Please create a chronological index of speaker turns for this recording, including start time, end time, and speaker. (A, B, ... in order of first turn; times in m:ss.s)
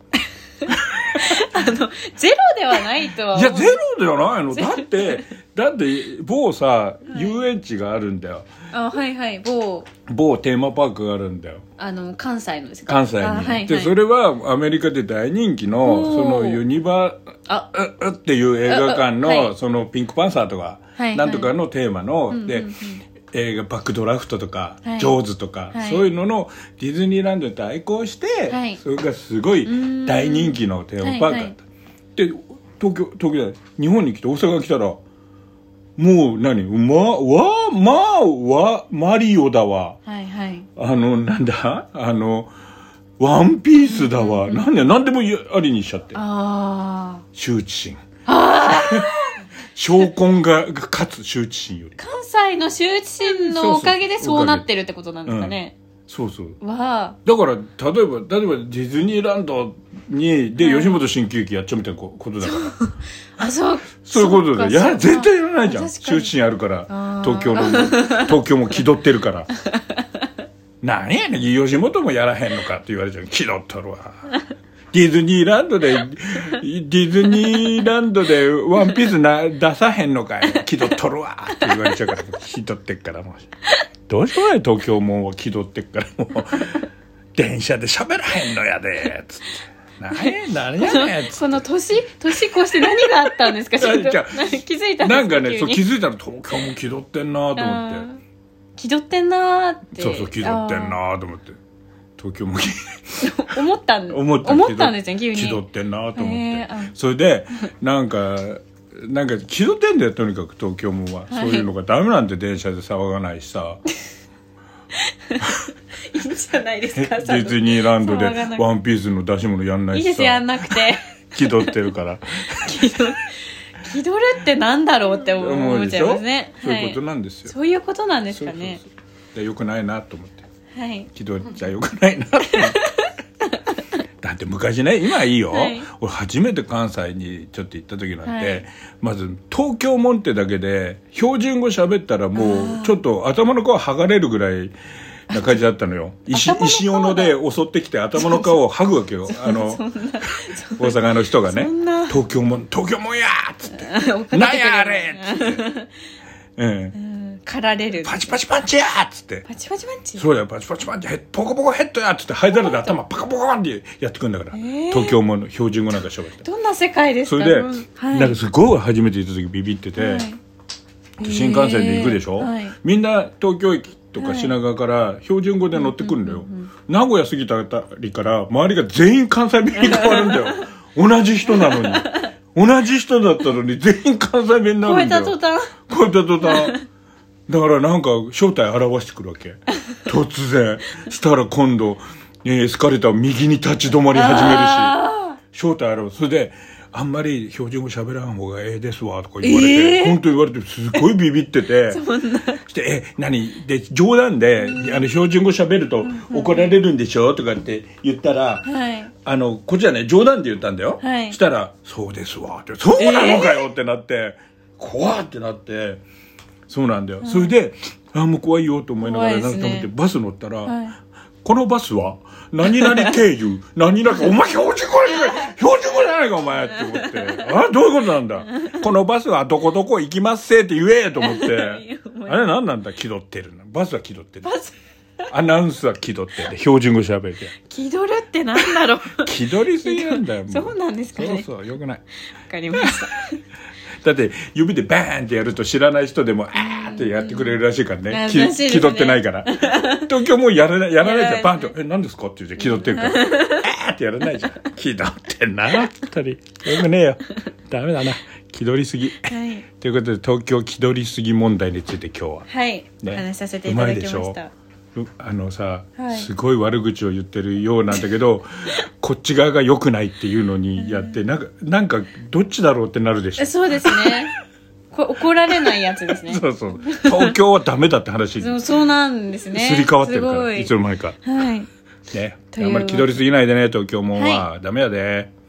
0:00.7-0:01.4 A
0:01.1-0:03.8 B
0:03.3-0:08.4 A
0:04.5-0:05.3 B
0:07.1-0:07.4 B
0:08.7-0:09.9 B
0:10.1-0:11.6 A
0:11.8-0:13.9 B
0:12.9-0:17.2 A
0:15.8-0:16.6 B
0:17.7-0:31.6 A
0:18.6-0:19.5 B
0:21.0-0:21.5 B
0:22.3-0:23.0 B
0:24.8-0:25.2 B
0:25.7-0:26.1 B
0:28.5-0:28.8 B
0:29.6-0:31.5 B
0:32.1-0:35.0 A
0:36.0-0:40.0 A
0:40.0-0:40.7 B
0:40.8-0:42.5 A
0:43.2-0:46.2 A
0:43.8-0:44.6 B
0:46.1-0:47.2 B
0:47.3-0:48.0 A
0:48.2-0:49.4 B
0:48.6-0:49.1 A
0:49.7-0:52.0 A
0:52.0-0:55.8 B
0:53.2-0:54.6 A
0:55.2-0:55.6 A
0:56.1-0:56.6 A
0:56.6-0:57.2 B
0:57.2-1:02.8 A
1:00.6-1:01.0 B
1:02.4-1:06.3 B
1:04.0-1:09.5 A
1:06.9-1:08.3 B
1:10.8-1:14.3 A
1:14.9-1:23.4 A
1:21.5-1:22.1 B
1:24.1-1:31.6 A
1:30.1-1:35.8 B
1:32.5-1:38.1 A
1:37.6-1:38.2 B
1:38.8-1:41.0 B
1:39.9-1:41.6 A
1:42.2-1:43.6 A
1:43.2-1:45.6 B
1:44.1-1:53.8 A
1:46.1-1:46.9 B
1:51.3-1:51.7 B
1:56.1-1:58.6 B
1:56.9-2:03.0 A
1:59.9-2:01.8 B
2:02.5-2:08.8 B
2:05.3-2:07.5 A
2:08.3-2:10.4 A
2:10.7-2:11.1 B
2:11.1-2:12.8 A
2:12.5-2:13.1 B
2:14.2-2:24.7 A
2:15.5-2:15.8 B
2:18.2-2:18.6 B
2:22.3-2:23.0 B
2:25.3-2:35.6 A
2:25.3-2:25.6 B
2:26.3-2:27.3 B
2:28.1-2:28.6 B
2:29.3-2:32.2 B
2:33.7-2:35.9 B
2:36.6-2:37.0 A
2:36.9-2:38.4 B
2:38.0-2:39.4 A
2:39.5-2:40.2 B
2:40.2-2:46.4 A
2:42.5-2:42.9 B
2:44.5-2:45.2 B
2:46.4-2:48.4 B
2:47.2-2:50.3 A
2:50.0-2:50.4 B
2:51.2-2:52.8 B
2:51.2-3:06.8 A
2:54.2-2:54.5 B
2:55.7-2:56.7 B
2:59.8-3:00.6 B
3:01.4-3:02.3 B
3:04.8-3:05.8 B
3:06.4-3:06.8 B
3:07.5-3:15.0 A
3:14.1-3:15.4 B
3:15.5-3:22.0 A
3:19.4-3:20.2 B
3:21.9-3:22.6 B
3:22.6-3:28.7 A
3:24.6-3:25.1 B
3:26.0-3:26.8 B
3:28.6-3:29.1 B
3:29.2-3:36.0 A
3:31.0-3:31.4 B
3:33.0-3:33.7 B
3:36.7-3:40.8 A
3:37.2-3:37.5 B
3:39.0-3:39.9 B
3:40.6-3:41.0 B
3:41.4-3:54.5 A
3:42.7-3:43.2 B
3:46.7-3:47.5 B
3:51.2-3:52.5 B
3:54.4-3:54.7 B
3:55.3-3:57.6 A
3:57.7-4:01.5 B
3:59.2-4:02.0 A
4:02.4-4:03.4 B
4:02.7-4:03.0 A
4:04.0-4:22.5 A
4:06.5-4:10.0 B
4:11.0-4:11.7 B
4:12.6-4:13.7 B
4:19.2-4:19.6 B
4:22.5-4:24.5 B
4:23.0-4:24.4 A
4:24.9-4:34.3 A
4:26.0-4:26.3 B
4:30.8-4:31.2 B
4:33.4-4:34.3 B
4:34.9-4:37.4 B
4:35.7-4:38.6 A
4:38.4-4:40.7 B
4:39.5-4:41.2 A
4:41.2-4:41.7 B
4:42.1-4:45.3 A
4:42.5-4:43.2 B
4:44.1-4:44.4 B